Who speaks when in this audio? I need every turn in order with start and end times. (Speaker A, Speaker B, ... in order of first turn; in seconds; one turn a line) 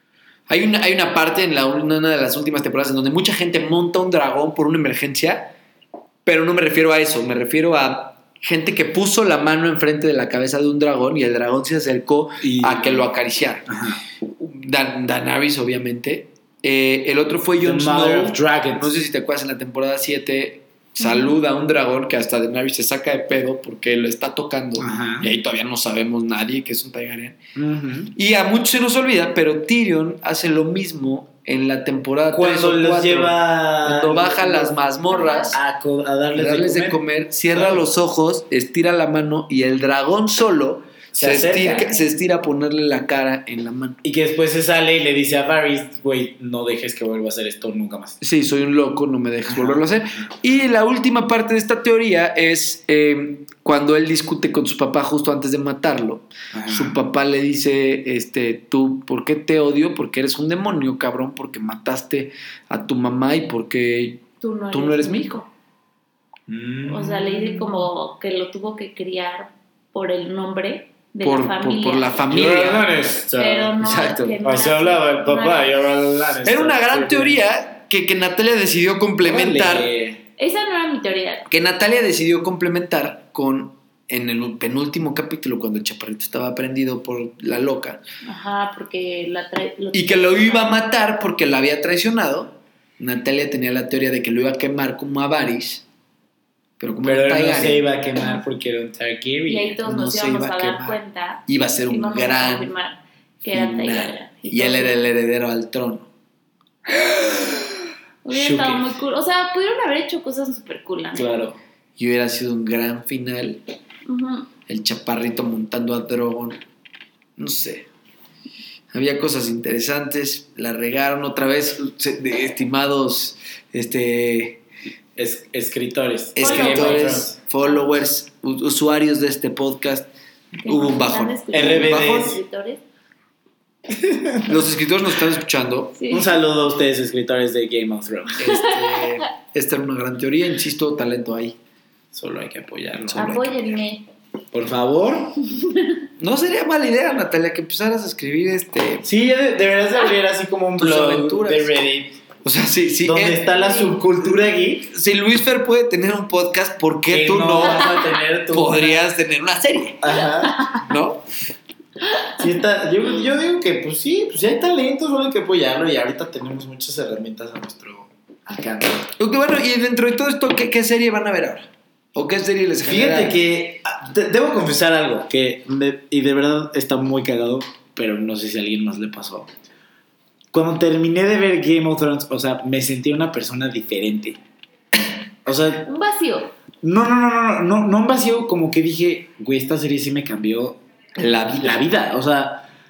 Speaker A: 0.5-5.5
Speaker A: 6.2-13.7
Speaker B: 12.4-13.0
Speaker B: 13.7-14.0
Speaker A: 14.2-27.4
Speaker B: 17.6-18.9
Speaker C: 21.0-21.3
Speaker B: 24.8-25.3
Speaker B: 27.6-28.1
Speaker A: 28.1-35.6
Speaker B: 32.3-34.8
Speaker C: 35.1-35.6
Speaker B: 35.5-37.8
Speaker A: 36.3-44.0
Speaker B: 41.1-42.0
Speaker C: 41.6-41.9
Speaker B: 44.0-48.2
Speaker A: 48.2-65.5
Speaker B: 49.5-50.3
Speaker B: 56.5-57.0
Speaker C: 64.4-65.4
Speaker B: 66.5-67.9
Speaker C: 66.9-72.2
Speaker A: 71.2-72.9
Speaker B: 72.3-77.4
Speaker C: 73.3-75.8
Speaker A: 73.8-74.4
Speaker A: 76.4-79.9
Speaker B: 79.2-80.2
Speaker C: 80.4-81.5
Speaker A: 81.5-88.0
Speaker C: 88.2-90.8
Speaker A: 89.9-95.8
Speaker A: 96.8-97.8
Speaker B: 97.0-99.8
Speaker C: 99.5-105.0
Speaker A: 99.8-102.7
Speaker A: 103.5-106.1
Speaker C: 108.2-111.5
Speaker B: 108.3-108.8
Speaker B: 111.1-111.6
Speaker A: 112.0-113.6
Speaker C: 114.0-114.5
Speaker A: 114.7-116.6
Speaker A: 117.4-117.9
Speaker A: 118.9-124.6
Speaker B: 125.2-127.4
Speaker A: 126.3-130.1
Speaker C: 126.4-127.8
Speaker C: 130.6-132.8
Speaker A: 130.6-132.4
Speaker B: 131.5-132.4
Speaker B: 133.9-134.6
Speaker A: 134.5-136.0
Speaker C: 135.9-136.3
Speaker B: 136.1-138.5
Speaker A: 138.4-141.6
Speaker C: 138.5-139.2
Speaker B: 142.1-143.4
Speaker A: 143.0-143.6
Speaker C: 143.1-144.0
Speaker B: 144.5-145.4
Speaker A: 146.2-149.1
Speaker B: 149.0-152.2
Speaker A: 150.8-151.8
Speaker A: 152.4-153.4
Speaker B: 153.0-154.9
Speaker C: 153.5-154.0
Speaker A: 154.9-160.2
Speaker B: 157.1-159.0
Speaker B: 160.0-160.7
Speaker A: 160.8-161.2
Speaker B: 162.4-169.1
Speaker A: 169.2-173.4
Speaker B: 172.8-179.5
Speaker B: 180.5-184.4
Speaker B: 185.4-185.9
Speaker C: 185.9-186.5
Speaker B: 186.8-190.8
Speaker A: 191.2-191.9
Speaker B: 191.4-192.6